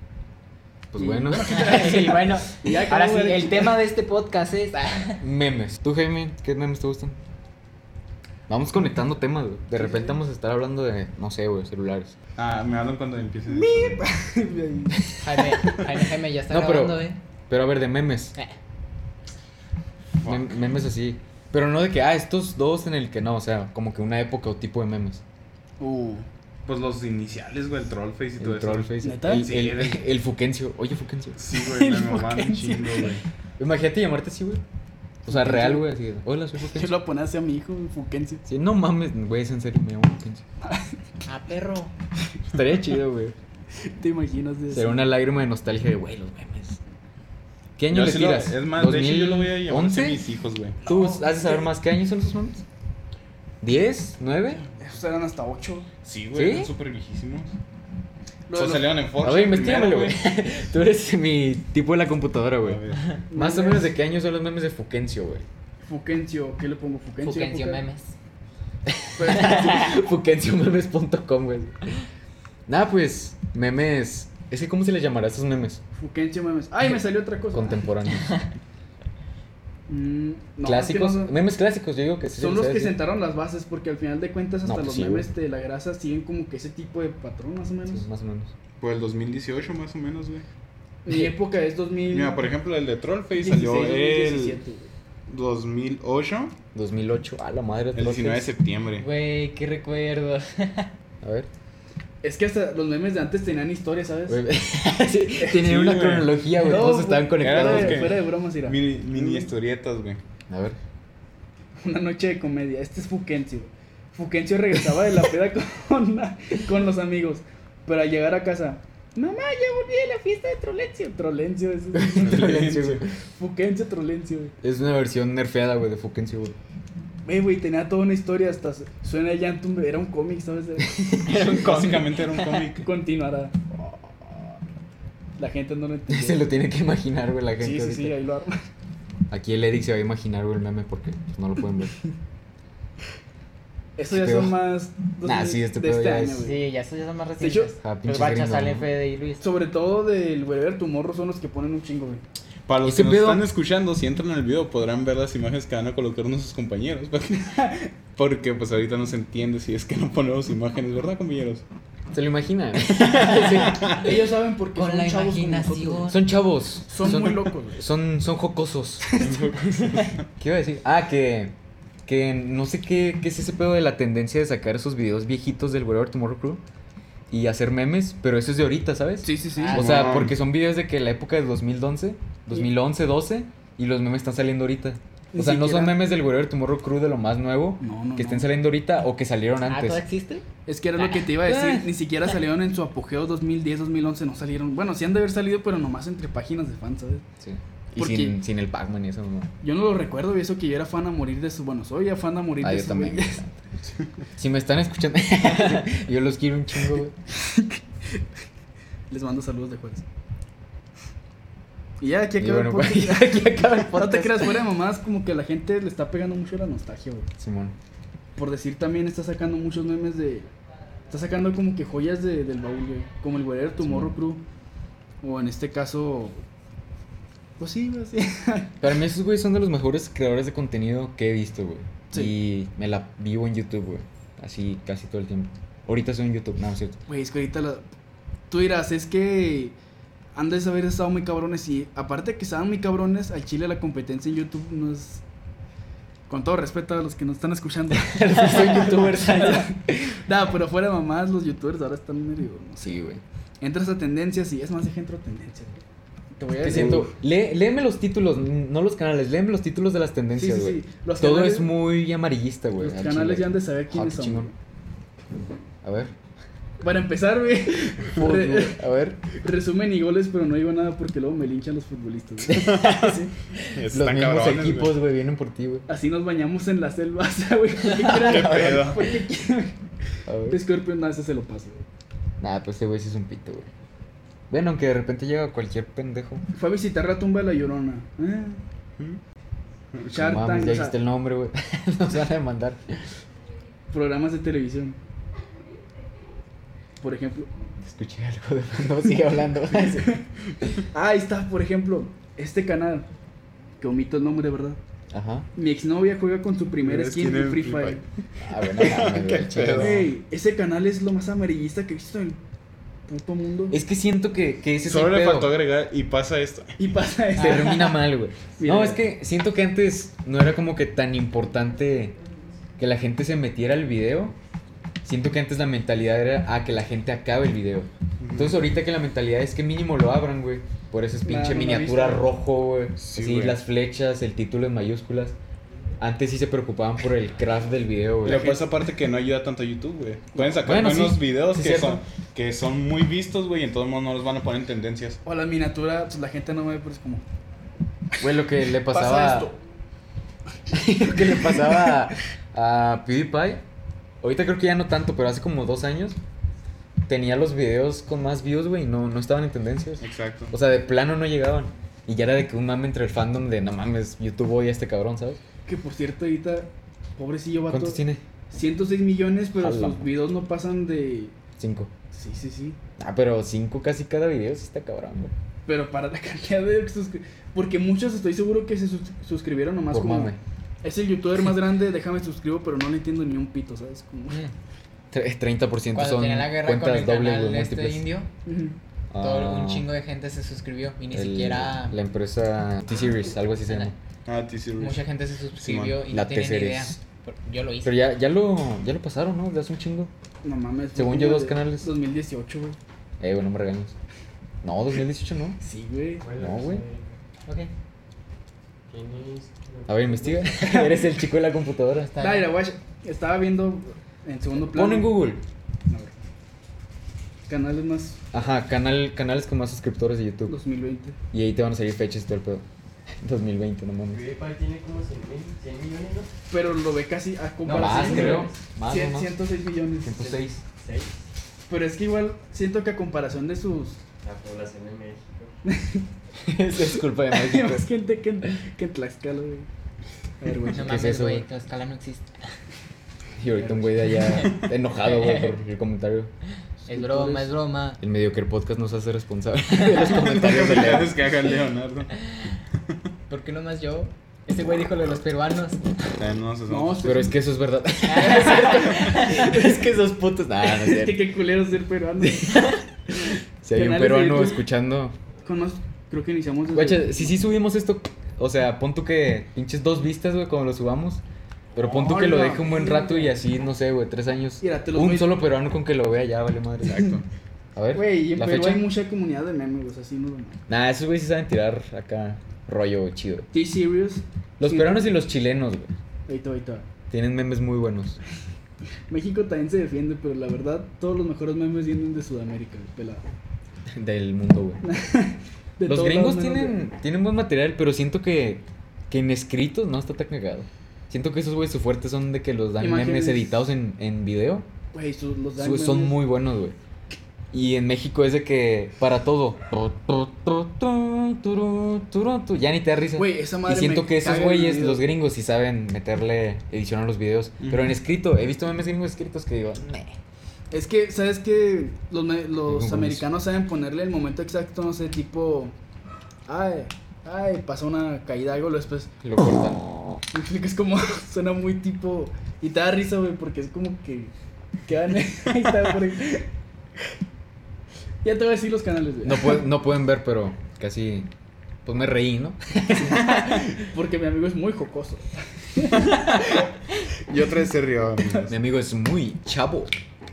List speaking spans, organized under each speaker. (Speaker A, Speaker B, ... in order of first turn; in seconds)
Speaker A: 0.9-1.9, 5.2-7.2, 8.5-12.1, 16.5-18.4, 20.2-25.2, 28.4-31.4, 33.6-34.6, 35.2-36.9, 38.5-40.4, 42.5-43.4, 44.7-46.8, 47.8-50.2, 50.8-52.6, 53.6-54.6, 56.3-56.7, 59.2-65.5, 68.9-72.0, 72.7-75.8, 77.5-78.4, 80.6-82.9, 84.7-85.3, 87.8-88.5, 96.7-98.5, 101.2-101.5, 104.3-108.1, 110.5-110.8, 121.9-123.1, 124.6-126.5, 136.1-138.1, 139.3-141.9, 144.1-144.5, 145.2-146.4, 147.8-148.9, 152.8-153.4, 162.1-164.0, 166.1-169.3, 169.9-171.5, 172.1-176.6, 177.3-190.0, 191.4-191.9, 197.4-199.5, 202.6-203.6, 204.3-207.1, 212.4-214.6, 217.4-217.7, 223.8-224.1, 228.8-237.0, 247.9-250.1, 252.8-253.2, 256.6-264.5, 265.8-266.1, 268.1-269.2, 272.5-275.9, 280.2-280.6, 282.4-283.7, 284.5-286.4, 290.1-293.0, 297.8-300.2, 305.1-305.5, 308.4-310.1, 313.7-315.5, 317.4-322.2, 322.8-324.4, 325.0-335.4, 336.0-338.5, 340.6-342.0, 348.2-349.5, 350.7-353.6, 354.2-356.2, 357.1-365.4, 367.7-368.2, 369.6-370.1, 371.6-371.9, 373.0-375.3, 379.9-380.4, 385.1-388.1, 389.1-389.9, 391.1-393.9, 396.1-397.0, 397.8-400.1, 400.9-401.9, 403.2-403.9, 404.6-405.6, 406.3-406.8, 409.9-412.1, 414.7-415.4, 418.3-420.6, 421.3-422.6, 423.2-424.2, 427.6-429.3, 430.0-430.6, 436.4-437.9, 440.8-441.4, 443.4-446.3, 448.0-451.1, 457.0-461.2, 462.2-465.1, 466.7-471.2, 471.8-477.2, 477.8-478.8, 480.7-483.5, 484.6-485.9, 487.1-488.2, 493.9-494.8, 495.8-504.7, 505.6-506.8, 507.5-520.2, 522.7-523.2, 529.2-530.2, 539.2-541.3, 541.8-543.6, 548.5-549.9
Speaker B: 0.9-3.8, 9.8-10.1, 13.5-15.2, 25.8-26.2, 29.0-29.5, 31.5-33.2, 35.2-35.9, 36.6-38.5, 40.6-40.9, 43.8-45.0, 50.8-51.7, 54.8-55.9, 58.5-59.0, 63.3-63.9, 65.9-67.8, 69.2-69.7, 76.0-77.8, 79.9-81.3, 82.3-88.0, 91.0-92.4, 93.3-94.9, 102.2-104.4, 106.5-109.5, 111.8-122.8, 123.3-124.5, 127.2-132.2, 132.8-133.8, 135.4-136.5, 137.6-138.6, 144.0-146.6, 147.4-147.7, 149.4-152.2, 157.4-157.9, 163.8-166.1, 166.9-167.8, 169.1-169.4, 179.2-179.8, 185.3-186.0, 187.8-188.5, 190.7-197.2, 197.9-198.4, 199.6-203.4, 207.3-208.2, 209.1-210.0, 212.0-217.3, 218.3-220.5, 221.1-224.4, 225.2-226.4, 227.6-228.8, 237.1-237.8, 238.5-239.7, 240.3-245.2, 246.3-253.0, 253.6-255.8, 256.4-257.1, 260.3-261.8, 262.8-264.5, 266.8-273.3, 275.9-279.8, 280.5-281.8, 286.5-288.6, 290.1-290.9, 293.9-295.0, 297.0-297.5, 300.9-303.1, 303.8-304.8, 305.5-308.0, 309.7-312.4, 313.1-313.8, 316.8-319.0, 331.2-332.3, 338.2-338.6, 345.2-347.2, 348.9-349.6, 351.0-352.0, 365.6-368.0, 368.5-371.3, 372.1-372.8, 375.7-384.4, 388.4-388.8, 400.4-402.8, 405.6-406.2, 410.6-410.9, 412.2-415.2, 415.9-416.1, 417.5-418.2, 420.5-421.2, 426.5-430.4, 431.7-434.0, 435.6-436.1, 437.3-439.7, 440.4-441.0, 443.5-444.3, 446.8-447.5, 456.7-457.3, 458.2-459.9, 460.6-462.8, 463.7-464.6, 465.4-467.4, 471.8-473.4, 474.6-475.3, 477.9-480.6, 483.5-485.0, 486.3-486.9, 489.1-493.2, 494.8-496.8, 502.8-503.6, 504.9-506.2, 513.1-515.0, 520.7-525.7, 526.5-529.1, 530.3-534.3, 534.9-536.5, 538.2-539.6, 543.0-546.3
Speaker C: 1.4-5.2, 15.2-17.2, 41.2-41.9, 67.2-68.1, 69.4-69.9, 99.0-100.9, 131.3-132.6, 146.3-149.5, 164.7-166.2, 179.6-180.2, 189.7-190.4, 191.0-191.3, 317.4-317.6, 384.3-384.5, 385.9-388.3, 389.2-392.0, 394.8-397.9, 412.1-412.5, 440.7-442.3, 444.3-445.5, 446.9-448.0, 449.7-450.1, 453.3-455.9, 458.1-459.5
Speaker D: 12.3-14.0, 20.2-20.5, 26.6-30.0, 31.4-33.2, 47.9-50.8, 56.0-57.5, 58.5-60.2, 62.6-63.1, 88.8-90.4, 92.1-94.6, 95.3-96.5, 97.9-99.0, 105.5-106.3, 107.4-110.2, 122.2-123.0, 131.2-132.9, 152.7-157.5, 158.2-161.6, 163.6-164.1, 169.2-170.2, 179.7-180.3, 272.6-274.9, 278.1-279.0, 306.8-308.0, 308.6-310.1, 314.8-316.7, 328.2-328.6, 333.0-333.6, 338.2-345.2, 360.0-360.5, 394.2-395.0, 395.6-396.0, 450.1-452.2, 456.2-457.3, 476.9-477.2, 517.6-517.9, 545.9-546.6, 547.3-548.5
Speaker E: 406.2-407.1, 408.9-410.7, 424.1-426.3, 427.9-428.4, 430.8-431.1, 434.2-435.5